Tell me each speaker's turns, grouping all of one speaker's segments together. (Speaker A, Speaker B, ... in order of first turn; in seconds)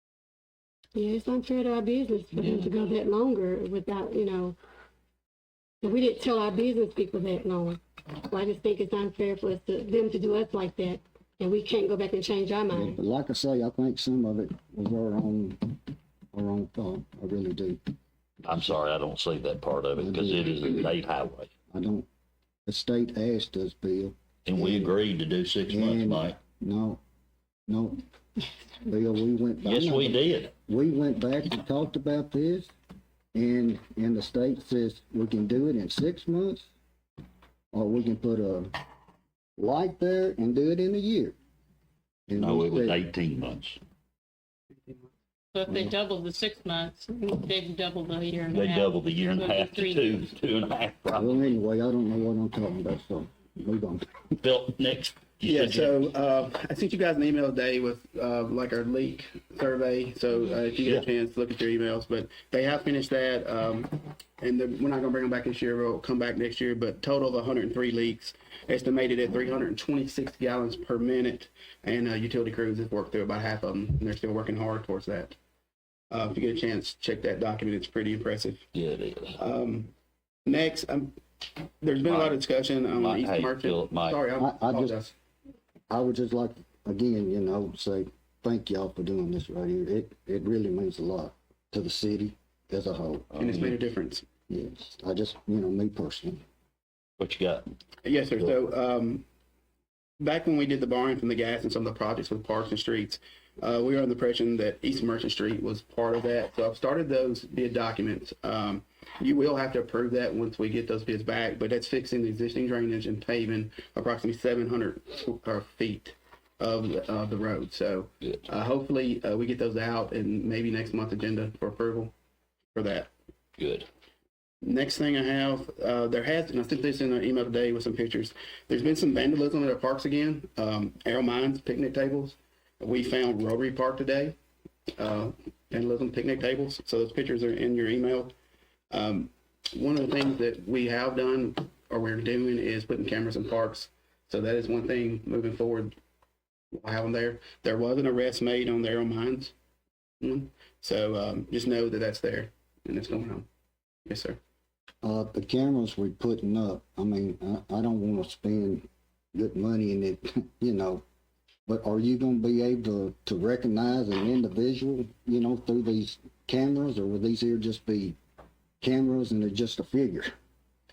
Speaker A: 0.9-4.6, 5.8-13.0
Speaker B: 12.7-15.8, 16.3-17.8, 20.0-20.6, 21.7-22.1, 22.7-24.9, 25.7-27.0, 27.7-28.0, 28.8-32.7, 33.3-36.7, 37.7-38.8, 39.6-41.4, 42.3-43.0, 51.1-54.1, 84.4-85.0, 85.9-93.4, 94.5-96.4, 155.0-161.0, 161.7-168.2, 168.8-170.3
Speaker C: 18.4-21.5, 24.5-26.4, 29.6-30.5, 42.4-43.8, 48.5-51.5, 54.4-56.0, 78.7-79.4, 82.0-82.4, 83.0-84.2, 93.3-93.8, 97.2-97.7, 123.6-123.9
Speaker D: 45.5-50.2
Speaker E: 55.5-75.4, 76.1-78.7, 79.4-79.9, 80.5-81.2, 81.8-85.1, 93.4-94.3, 98.0-99.2, 100.2-122.1, 122.7-123.1, 124.6-134.4, 135.0-138.3, 138.9-146.0, 146.7-149.5, 150.2-153.5, 154.1-154.4